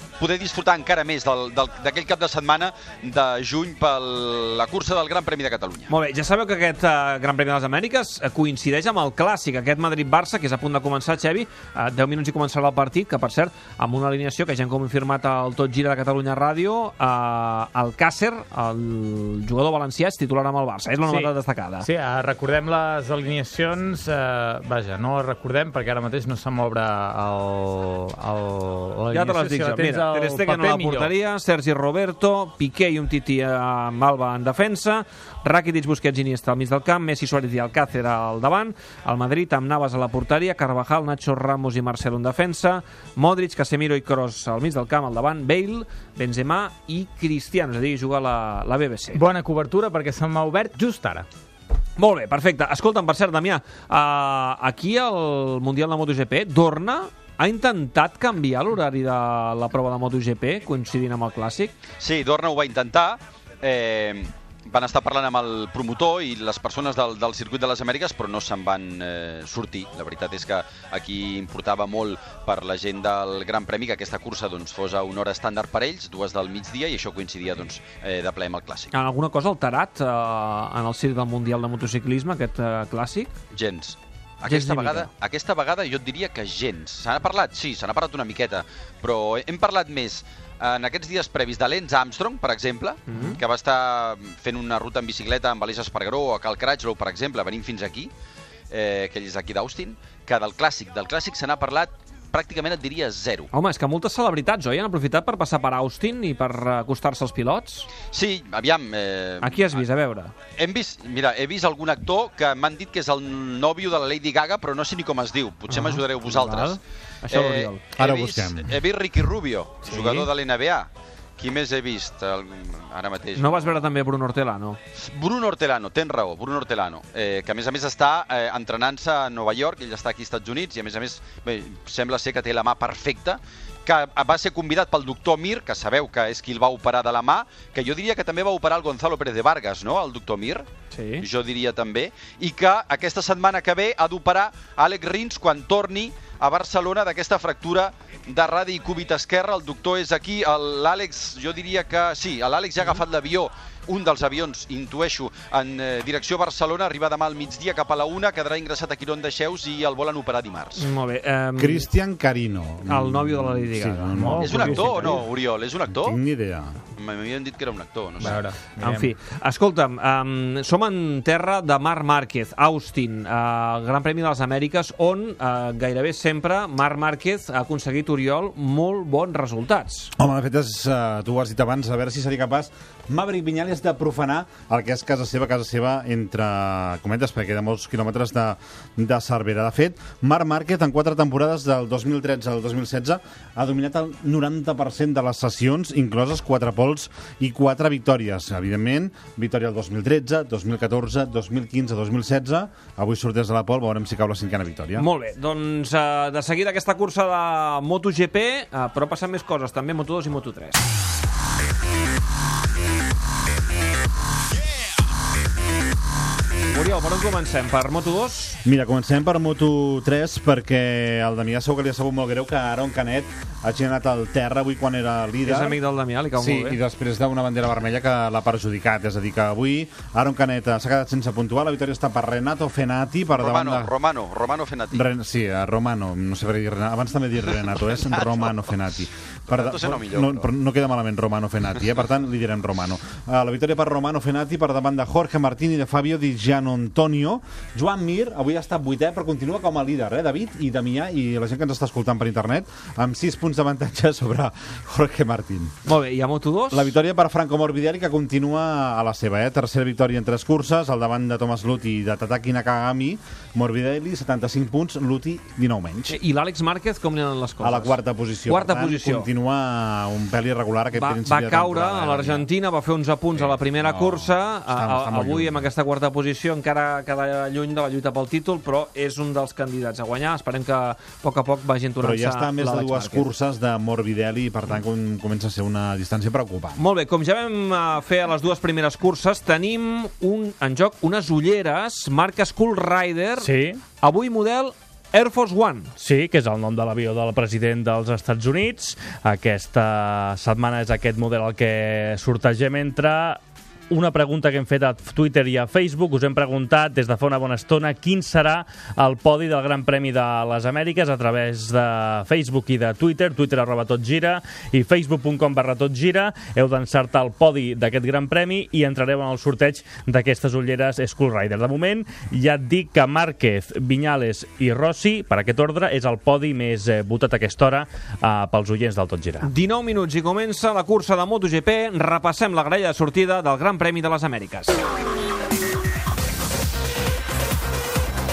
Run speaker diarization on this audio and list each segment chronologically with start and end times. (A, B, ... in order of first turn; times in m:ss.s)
0:00.2-0:05.9 A
0:05.9-0:21.9 B
0:21.1-0:31.1 C
0:29.1-0:49.2 B
0:49.2-0:51.3 C
0:52.0-1:01.7 B
1:02.0-1:18.9 A
1:18.9-1:23.4 B
1:23.5-1:38.1 A
1:24.4-1:25.1 B
1:33.1-1:33.4 B
1:38.7-1:43.5 A
1:43.5-1:47.9 B
1:48.1-1:49.9 A
1:49.4-1:50.3 B
1:50.6-1:56.8 A
1:55.7-1:57.8 B
1:57.3-2:03.8 A
1:58.0-1:58.7 D
1:59.8-2:00.3 B
2:03.4-2:04.8 B
2:05.0-2:20.7 A
2:20.9-2:21.3 B
2:21.2-2:40.8 A
2:40.8-2:41.9 B
2:41.6-2:45.2 D
2:42.9-2:45.2 B
2:44.2-2:45.2 C
2:44.4-2:46.2 A
2:45.9-2:46.8 D
2:47.0-2:48.4 A
2:48.2-2:49.1 C
2:48.8-3:00.1 B
3:00.2-3:25.1 D
3:25.0-3:30.8 B
3:36.7-3:38.6 B
3:38.6-3:45.8 D
3:45.4-3:46.8 B
3:46.4-3:53.9 D
3:53.3-3:55.1 A
3:54.9-4:15.7 D
3:58.0-3:58.8 A
3:59.5-4:00.5 A
4:15.8-4:17.0 B
4:16.7-4:26.2 D
4:26.1-4:29.3 B
4:27.6-4:32.5 D
4:30.9-4:43.3 B
4:33.4-4:35.7 D
4:42.0-4:46.8 D
4:46.8-4:53.5 B
4:53.4-4:53.8 E
4:54.0-4:55.9 B
4:56.0-5:29.5 E
5:29.4-5:34.8 B